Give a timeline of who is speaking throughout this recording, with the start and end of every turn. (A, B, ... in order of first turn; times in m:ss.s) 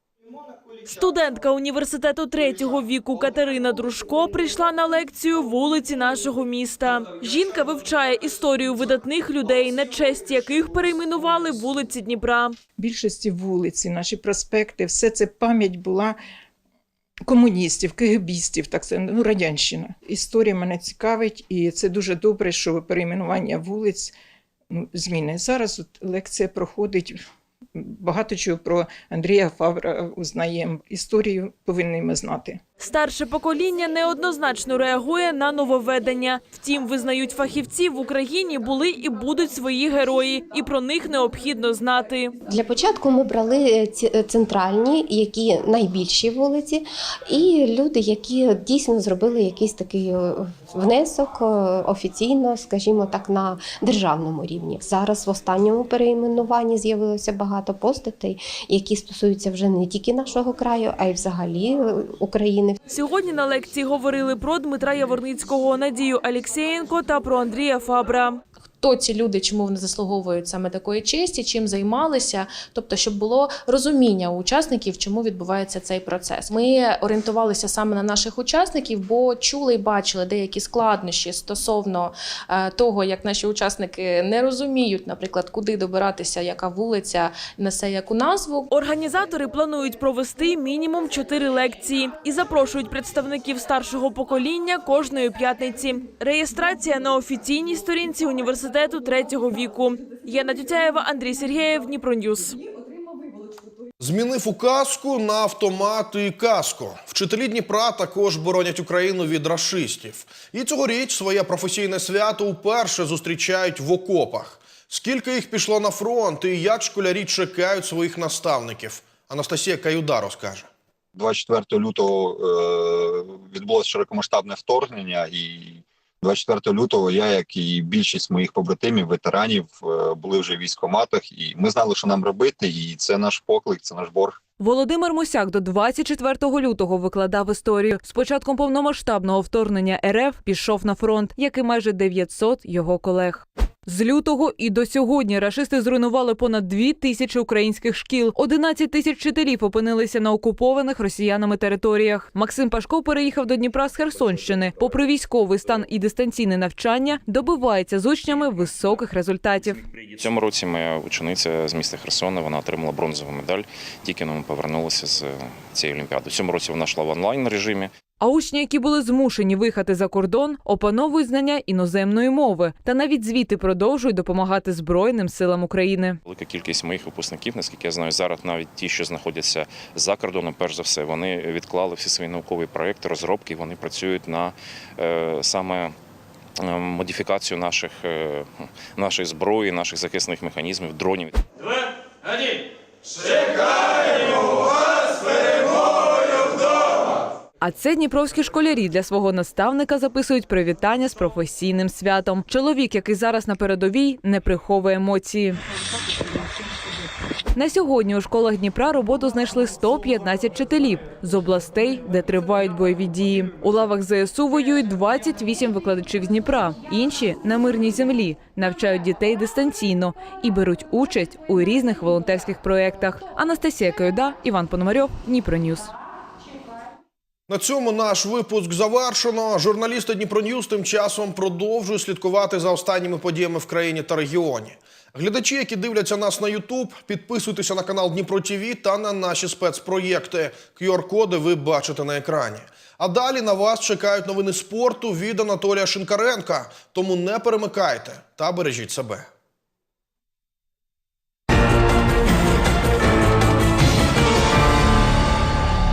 0:00.9-0:12.6 A
0:12.8-0:16.2 B
0:17.3-0:24.1 B
0:24.7-0:27.2 B
0:27.8-0:32.6 B
0:32.8-0:42.3 A
0:42.5-1:02.8 C
1:02.9-1:08.4 A
1:08.8-1:28.7 D
1:28.7-1:42.6 A
1:44.0-2:00.7 E
2:01.2-2:14.4 F
2:14.6-2:39.8 G
2:40.2-2:47.9 H
2:48.2-2:56.2 G
2:56.3-3:06.0 H
3:06.6-3:11.4 H
3:17.6-3:25.6 G
3:27.6-3:45.9 G
3:47.5-4:09.3 E